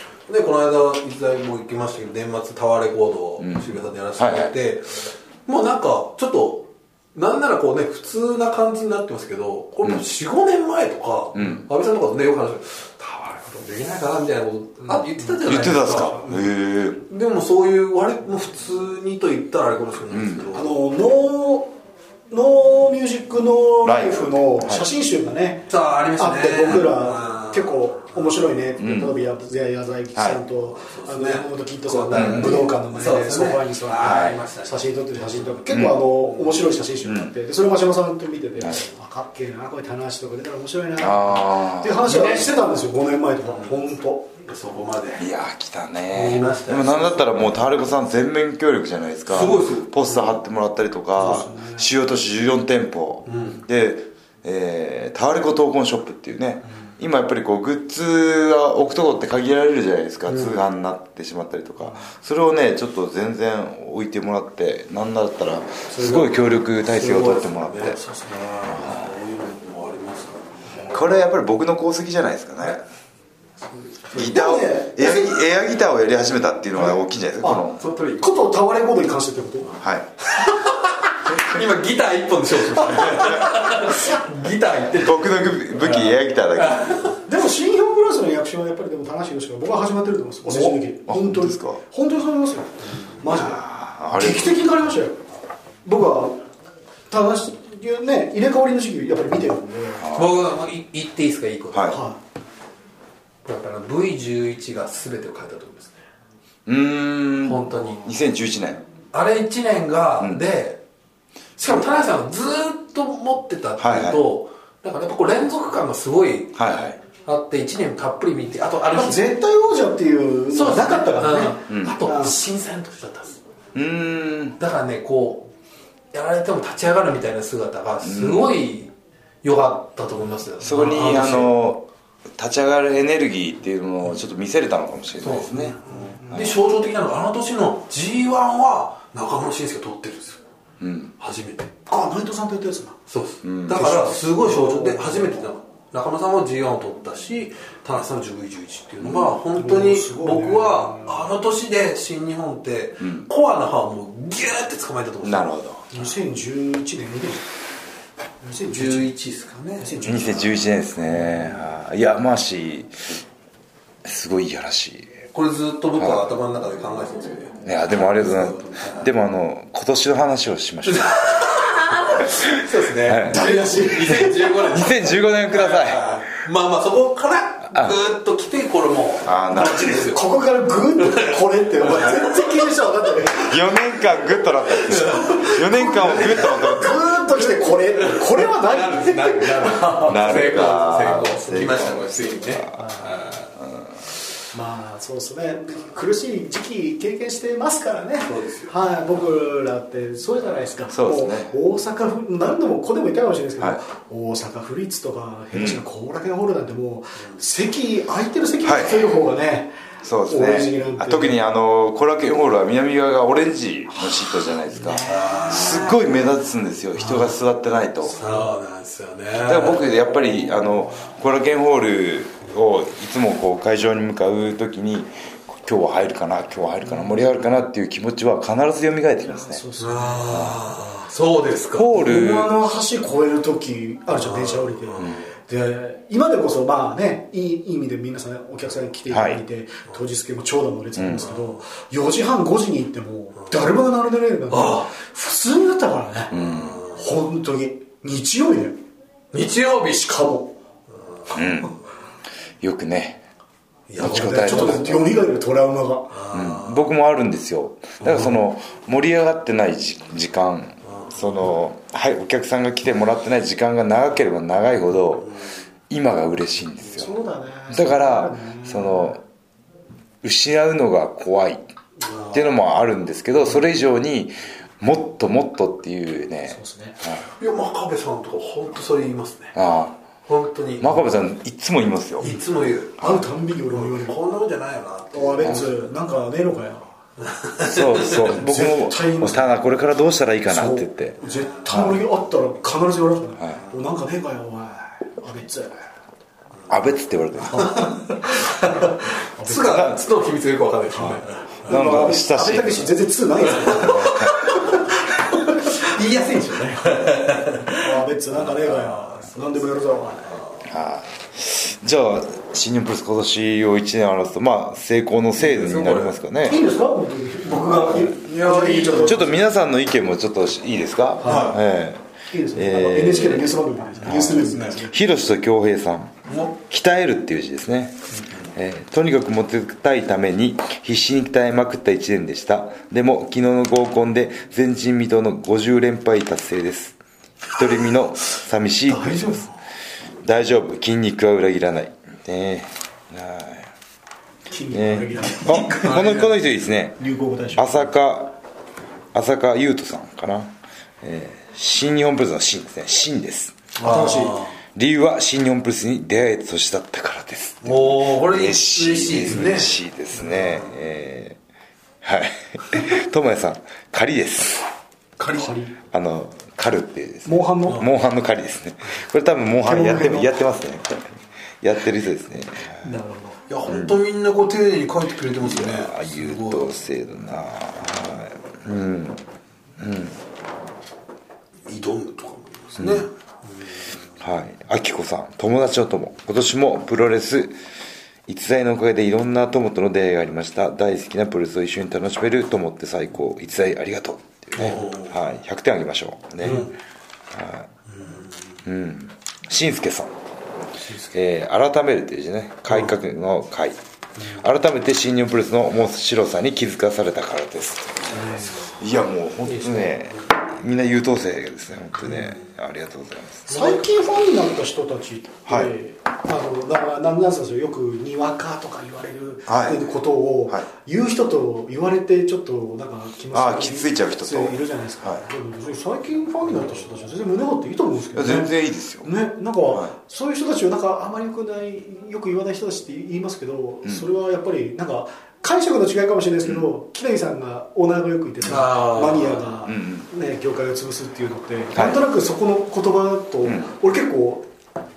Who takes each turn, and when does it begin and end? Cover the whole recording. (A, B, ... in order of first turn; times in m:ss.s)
0:00.3-0:16.5 A
0:03.4-0:04.5 B
0:11.4-0:11.7 B
0:14.9-0:15.3 C
0:15.4-0:17.0 B
0:17.1-0:20.8 A
0:20.1-0:20.5 B
0:20.5-0:21.7 C
0:22.3-0:44.3 C
0:23.8-0:24.8 B
0:25.7-0:27.7 A
0:28.8-0:29.1 B
0:30.1-0:30.4 B
0:30.9-0:35.5 A
0:32.1-0:32.6 B
0:34.0-0:34.4 B
0:35.7-0:36.0 B
0:36.2-0:36.7 A
0:37.0-0:37.3 B
0:41.0-0:42.2 B
0:42.1-0:42.5 A
0:44.5-0:45.2 A
0:45.2-1:08.0 B
0:46.1-0:47.5 A
0:49.3-0:50.3 A
0:51.2-0:51.9 C
0:53.3-0:53.6 A
1:00.3-1:00.6 A
1:05.9-1:11.0 A
1:08.7-1:09.1 B
1:10.9-1:12.8 B
1:13.9-1:15.3 C
1:14.1-1:17.8 B
1:16.8-1:19.7 C
1:17.8-1:18.3 A
1:19.8-1:20.1 B
1:20.4-1:27.2 A
1:23.9-1:24.2 C
1:25.0-1:27.0 B
1:27.3-1:35.2 C
1:30.5-1:30.8 A
1:31.1-1:31.8 B
1:33.3-1:34.6 B
1:35.8-1:36.4 C
1:37.1-1:40.0 C
1:40.0-1:40.4 B
1:40.1-1:42.0 A
1:41.7-1:42.0 B
1:41.9-1:42.2 C
1:43.4-1:46.0 A
1:46.6-1:48.8 B
1:47.4-1:48.1 A
1:49.1-1:50.8 A
1:51.6-1:56.6 A
1:53.8-1:54.2 B
1:56.6-1:57.0 B
1:57.1-1:59.3 A
1:58.9-2:02.4 C
2:00.5-2:03.4 A
2:01.7-2:02.0 B
2:03.8-2:04.6 B
2:04.6-2:05.5 A
2:06.1-2:08.9 A
2:08.0-2:08.6 B
2:09.4-2:11.5 A
2:10.6-2:15.8 B
2:15.2-2:20.4 A
2:15.9-2:16.2 C
2:16.3-2:16.6 B
2:20.8-2:21.1 B
2:21.2-2:21.8 A
2:21.9-2:23.0 C
2:23.1-2:35.6 A
2:23.4-2:23.9 B
2:23.7-2:25.4 C
2:29.0-2:31.2 C
2:33.0-2:33.3 B
2:35.2-2:35.9 B
2:35.9-2:37.5 C
2:38.4-2:39.1 C
2:38.7-2:40.0 A
2:39.8-2:40.7 C
2:40.0-2:43.0 B
2:44.0-2:45.2 B
2:45.3-2:49.1 A
2:46.0-2:46.3 B
2:47.6-2:51.5 B
2:50.9-3:00.2 A
2:52.2-2:53.4 B
2:53.2-2:54.6 C
2:54.2-2:56.2 B
2:57.7-2:58.0 B
2:59.2-3:00.0 B
2:59.5-3:03.7 C
3:01.1-3:02.3 A
3:03.4-3:07.0 B
3:04.8-3:06.8 A
3:05.1-3:11.6 C
3:07.3-3:13.5 A
3:10.0-3:12.7 B
3:12.7-3:13.3 C
3:13.6-3:13.9 B
3:14.5-3:29.8 C
3:18.2-3:18.7 A
3:20.9-3:21.5 B
3:25.5-3:25.8 B
3:28.6-3:29.2 B
3:30.0-3:38.2 B
3:30.3-3:31.4 C
3:34.8-3:35.9 C
3:35.0-3:36.0 A
3:37.0-3:37.4 A
3:38.1-3:39.8 A
3:39.4-3:49.6 B
3:49.3-3:50.6 C
3:49.8-3:51.9 A
3:50.3-3:50.6 B
3:51.7-3:52.5 B
3:51.9-4:08.8 C
3:54.1-3:55.1 A
3:59.1-3:59.4 B
4:01.0-4:01.3 B
4:04.5-4:04.9 A
4:06.3-4:06.8 B
4:06.4-4:06.9 A
4:09.3-4:10.1 A
4:09.9-4:10.5 C
4:11.3-4:11.7 B
4:12.6-4:13.2 B
4:13.9-4:14.4 A
4:14.0-4:15.1 B
4:14.0-4:16.2 C
4:16.2-4:16.8 A
4:16.3-4:25.3 B
4:25.9-4:27.1 B
4:27.0-4:29.1 C
4:27.7-4:29.2 B
4:30.2-4:31.7 B
4:32.1-4:32.4 A
4:32.3-4:37.2 B
4:36.5-4:37.0 C
4:37.4-4:39.6 A
4:39.6-4:40.0 B
4:40.3-4:41.0 A
4:40.8-4:42.3 B
4:42.2-4:43.0 A
4:43.0-4:44.2 C
4:43.7-4:45.6 A
4:45.1-4:46.9 C
4:47.3-4:48.3 A
4:47.6-4:51.2 B
4:48.1-4:49.5 C
4:50.5-4:55.8 C
4:51.7-4:52.0 B
4:56.7-4:58.0 B
4:57.5-4:59.9 C
4:58.4-4:58.9 A
4:59.4-5:01.6 A
4:59.7-5:00.0 B
5:01.6-5:02.9 B
5:01.6-5:05.9 C
5:03.6-5:04.6 A
5:03.6-5:04.3 B
5:05.5-5:08.0 A
5:07.6-5:10.4 C
5:10.6-5:16.6 B
5:15.4-5:16.2 A
5:16.4-5:19.3 C
5:17.5-5:18.2 B
5:18.2-5:19.3 A
5:19.0-5:28.0 B
5:21.2-5:21.6 C
5:21.2-5:21.6 A
5:22.3-5:24.9 C
5:24.1-5:24.8 A
5:26.3-5:26.5 A
5:28.1-5:28.5 A
5:28.5-5:37.0 B
5:37.5-5:39.5 B
5:38.9-5:39.5 A
5:40.2-5:43.7 B
5:44.5-5:46.3 C
5:44.7-5:47.0 B
5:45.5-5:46.3 A
5:47.0-5:47.9 C
5:47.6-5:48.3 B
5:49.1-5:53.7 B
5:53.8-5:54.5 C
5:53.8-5:54.5 A
5:54.8-6:01.4 B
5:57.6-6:00.7 A
6:02.0-6:04.7 B
6:05.2-6:05.5 A
6:05.3-6:05.8 C
6:05.9-6:12.9 B
6:07.3-6:07.9 C
6:09.6-6:10.4 C
6:12.8-6:13.4 C
6:13.5-6:16.7 A
6:13.7-6:14.0 B
6:15.4-6:19.2 B
6:19.8-6:20.2 B
6:21.6-6:23.8 A
6:22.8-6:23.1 B
6:24.2-6:27.6 B
6:28.3-6:36.7 B
6:34.6-6:35.1 A
6:36.4-6:36.7 A
6:37.3-6:37.7 B
6:38.0-6:38.2 A
6:38.6-6:40.1 B
6:41.1-6:53.8 B
6:48.2-6:48.7 A
6:48.3-6:48.5 C
6:49.5-6:50.1 A
6:52.1-6:52.4 A
6:53.5-7:24.5 C
6:55.5-6:55.7 B
6:59.5-6:59.9 B
7:03.3-7:05.2 B
7:08.1-7:09.1 B
7:18.5-7:19.5 A
7:19.6-7:20.1 B
7:21.7-7:22.0 B